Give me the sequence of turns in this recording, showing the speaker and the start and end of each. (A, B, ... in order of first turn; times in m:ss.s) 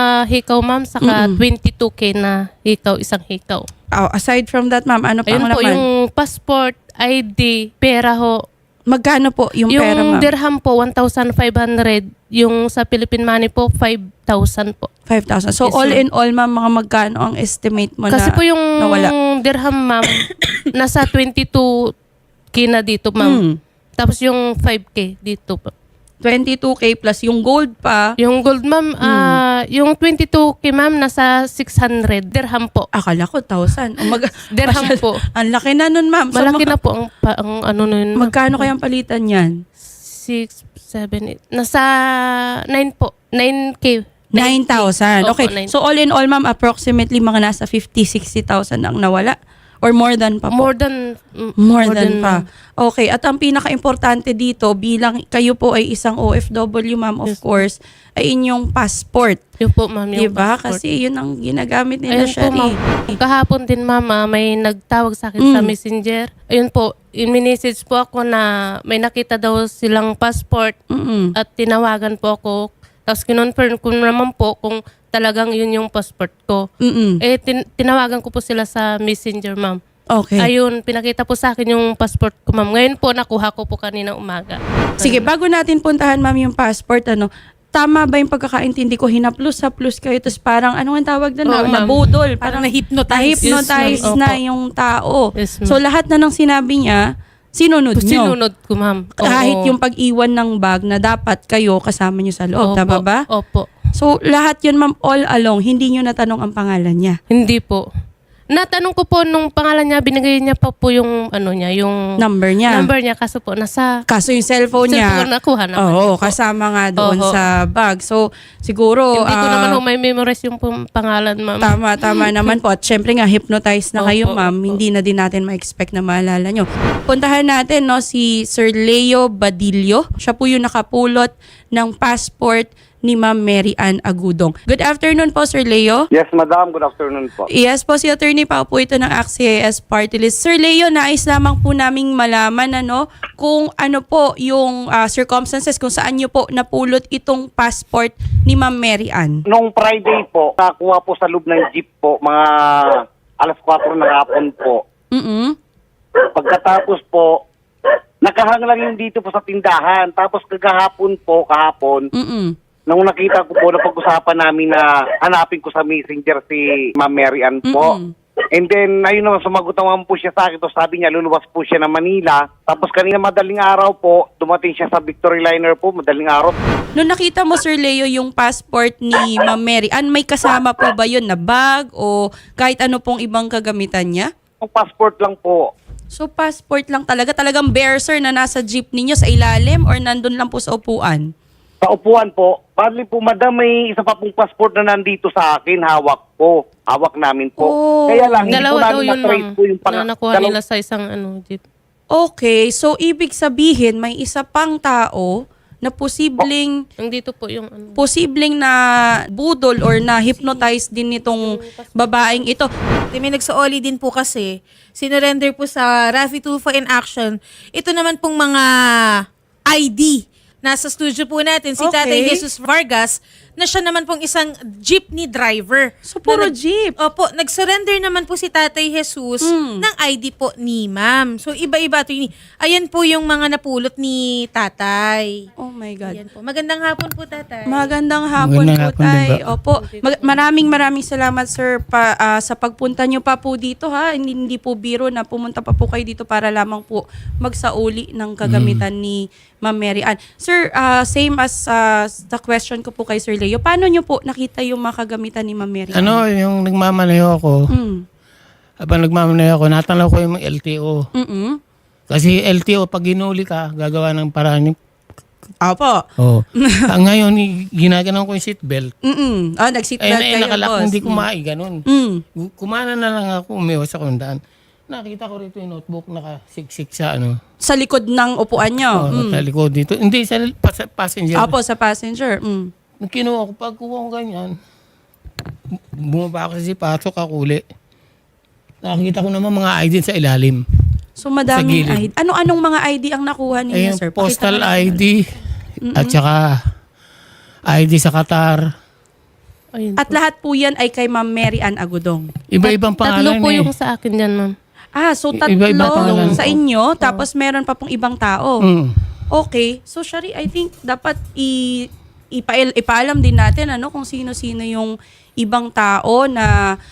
0:00.3-0:03.6 A
0:01.0-0:01.4 B
0:03.9-0:05.8 B
0:05.3-0:08.4 A
0:08.9-0:10.3 B
0:09.7-0:14.9 A
0:15.1-0:19.1 B
0:15.6-0:16.0 A
0:18.1-0:21.7 A
0:22.5-0:23.4 A
0:23.2-0:23.6 B
0:24.0-0:25.7 A
0:26.2-0:28.1 B
0:28.2-0:32.9 A
0:29.0-0:29.4 B
0:32.9-0:36.7 B
0:34.6-0:35.2 A
0:36.3-0:38.7 A
0:38.2-0:39.5 B
0:40.0-0:41.8 A
0:42.7-0:45.7 A
0:44.4-0:50.7 B
0:50.5-0:52.4 A
0:51.6-0:59.4 B
0:57.3-0:57.6 A
0:59.6-1:00.8 A
1:00.2-1:02.8 B
1:02.1-1:10.8 A
1:05.4-1:05.7 B
1:10.9-1:11.3 B
1:11.4-1:16.6 A
1:16.8-1:17.2 B
1:17.2-1:19.8 A
1:20.1-1:20.5 B
1:20.4-1:25.3 A
1:25.0-1:37.0 B
1:31.4-1:32.0 A
1:32.4-1:34.2 C
1:33.4-1:34.4 A
1:35.4-1:35.8 A
1:37.6-1:38.3 B
1:38.0-1:39.7 A
1:39.2-1:43.2 B
1:42.6-1:43.7 A
1:44.0-1:47.2 B
1:47.3-1:47.8 A
1:48.5-1:52.0 A
1:52.2-1:52.8 B
1:52.7-1:53.9 A
1:54.1-1:55.2 B
1:54.8-1:56.4 A
1:55.8-1:59.8 B
1:57.0-1:57.4 A
1:59.2-2:02.5 A
2:01.6-2:16.1 B
2:04.0-2:04.8 A
2:16.1-2:17.4 D
2:17.5-2:29.4 B
2:29.5-2:34.8 D
2:35.1-2:35.6 B
2:36.3-2:37.4 D
2:38.2-2:42.1 D
2:42.1-2:42.6 B
2:42.9-2:47.9 D
2:47.6-2:48.1 B
2:48.6-2:56.6 D
2:56.9-3:04.3 B
3:04.6-3:05.7 D
3:06.1-3:11.2 B
3:11.8-3:20.5 D
3:17.6-3:18.6 B
3:18.5-3:21.6 A
3:22.1-3:26.7 B
3:27.0-3:28.0 A
3:28.0-3:28.8 B
3:29.3-3:32.7 B
3:31.3-3:32.4 A
3:33.1-3:38.7 C
3:39.7-3:55.3 C
3:41.8-3:42.4 B
3:46.1-3:47.0 B
3:49.4-3:49.8 B
3:55.6-3:56.2 B
3:56.0-3:57.9 C
3:57.6-4:16.2 B
3:58.4-3:59.5 E
4:08.4-4:08.8 E
4:15.9-4:17.6 E
4:17.7-4:18.0 B
4:18.8-4:21.0 E
4:21.2-4:21.6 B
4:22.1-4:24.8 E
4:25.6-4:26.0 B
4:26.2-4:28.9 E
4:29.0-4:31.2 B
4:30.0-4:31.8 E
4:31.9-4:32.2 B
4:32.4-4:37.4 E
4:37.6-4:39.4 B
4:39.0-4:41.5 E
4:41.4-4:42.7 B
4:43.0-4:44.5 E
4:46.0-4:47.6 E
4:48.8-4:50.6 E
4:51.2-4:55.1 B
4:51.5-4:52.1 E
4:53.7-4:55.2 E
4:55.9-4:56.2 B
4:55.9-4:56.6 E
4:57.7-4:58.6 E
4:59.8-5:00.2 A
5:00.0-5:02.3 B
5:02.5-5:03.7 E
5:02.6-5:04.5 A
5:05.0-5:08.6 B
5:05.4-5:06.6 E
5:06.0-5:06.4 A
5:08.6-5:08.9 E
5:09.3-5:16.5 B